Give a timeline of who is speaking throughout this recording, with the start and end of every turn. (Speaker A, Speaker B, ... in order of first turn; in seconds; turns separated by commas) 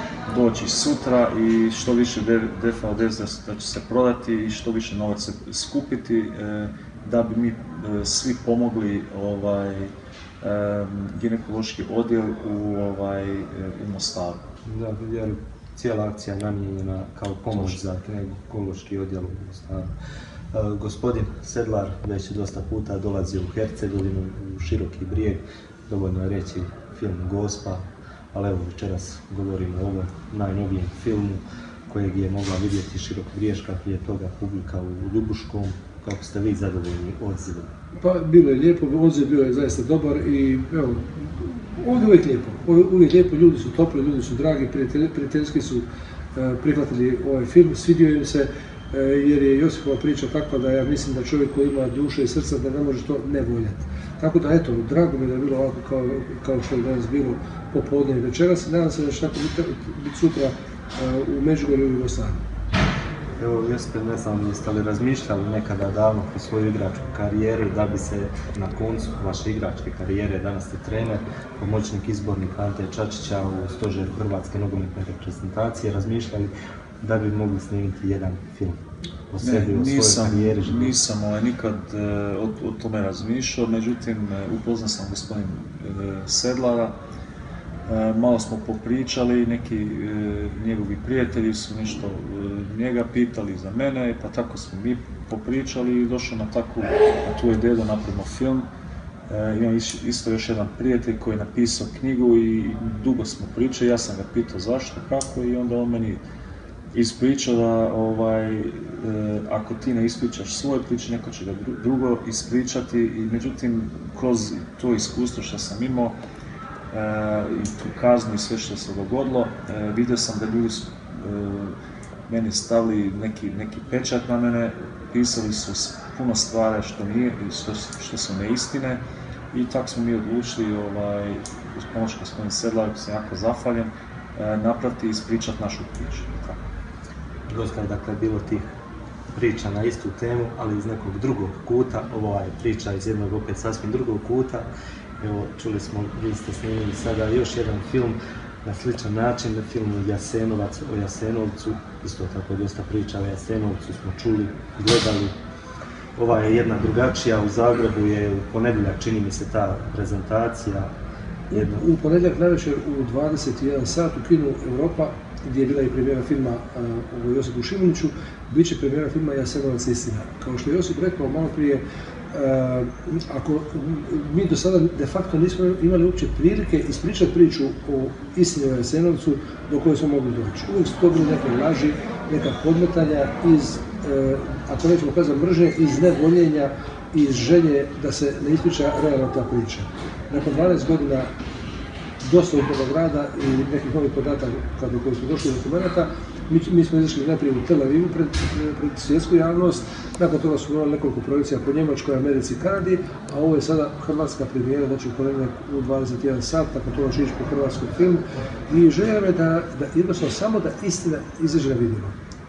Speaker A: 0.3-14.4, Speaker B: 14.7-19.9, Speaker B: 20.5-37.7, Speaker C: 38.0-62.4, Speaker B: 63.4-78.8, Speaker B: 79.3-81.0, Speaker A: 79.4-87.0, Speaker A: 87.8-98.7, Speaker A: 99.3-106.2, Speaker A: 106.9-116.2, Speaker A: 116.9-121.8, Speaker A: 122.3-136.6, Speaker B: 137.5-138.7, Speaker B: 139.3-144.7, Speaker B: 145.2-155.3, Speaker B: 156.2-160.9, Speaker C: 161.5-191.3, Speaker B: 161.5-161.8, Speaker C: 192.2-212.2